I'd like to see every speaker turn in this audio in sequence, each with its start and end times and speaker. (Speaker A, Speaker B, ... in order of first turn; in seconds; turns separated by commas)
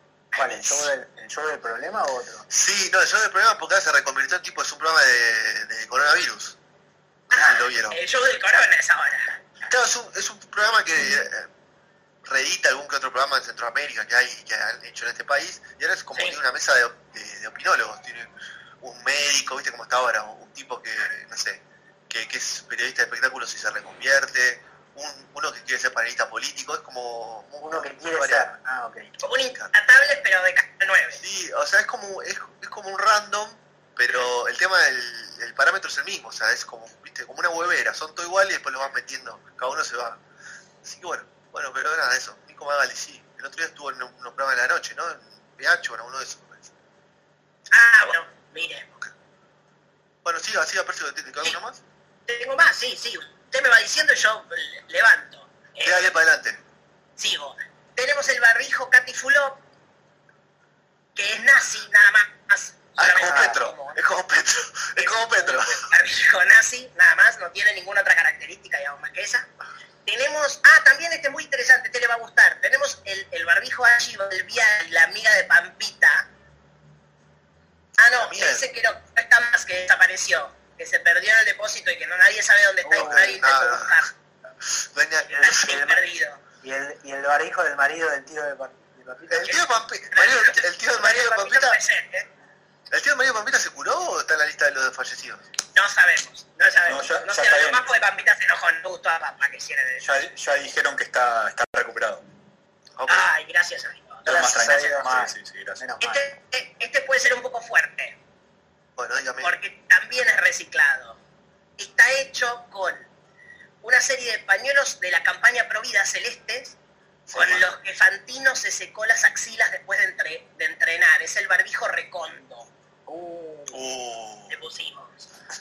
Speaker A: 0.3-0.9, Speaker B: 0.3-2.5, Speaker C: 2.5-6.5, Speaker A: 7.3-9.4, Speaker C: 7.3-8.0, Speaker C: 9.6-11.5, Speaker C: 12.2-28.4, Speaker A: 16.1-16.4, Speaker B: 27.6-29.1, Speaker A: 29.2-31.2, Speaker C: 31.2-40.2, Speaker C: 40.8-46.7, Speaker A: 47.7-48.9, Speaker C: 50.2-51.8, Speaker A: 52.3-56.1, Speaker C: 55.8-56.6, Speaker A: 57.2-59.6, Speaker A: 61.1-64.2, Speaker C: 63.0-65.8, Speaker B: 63.2-63.5, Speaker A: 65.0-69.5, Speaker A: 70.0-76.3, Speaker A: 78.0-84.1, Speaker C: 78.1-78.7, Speaker B: 82.8-83.4, Speaker C: 83.0-84.0, Speaker C: 84.9-85.7, Speaker A: 85.2-86.4, Speaker B: 85.3-86.0, Speaker B: 86.6-89.5, Speaker C: 89.3-91.8, Speaker A: 89.4-92.3, Speaker C: 92.9-95.5, Speaker A: 95.7-100.2, Speaker D: 96.8-97.9, Speaker D: 100.0-102.2, Speaker C: 103.0-103.3, Speaker A: 103.1-105.0, Speaker D: 104.2-105.9, Speaker B: 104.3-106.3, Speaker A: 106.0-108.2, Speaker C: 109.0-109.5, Speaker A: 109.4-111.2, Speaker A: 111.8-113.1, Speaker A: 113.8-116.8, Speaker C: 117.3-117.7, Speaker A: 117.3-122.7, Speaker B: 123.1-123.8, Speaker C: 123.7-124.6, Speaker A: 124.5-125.2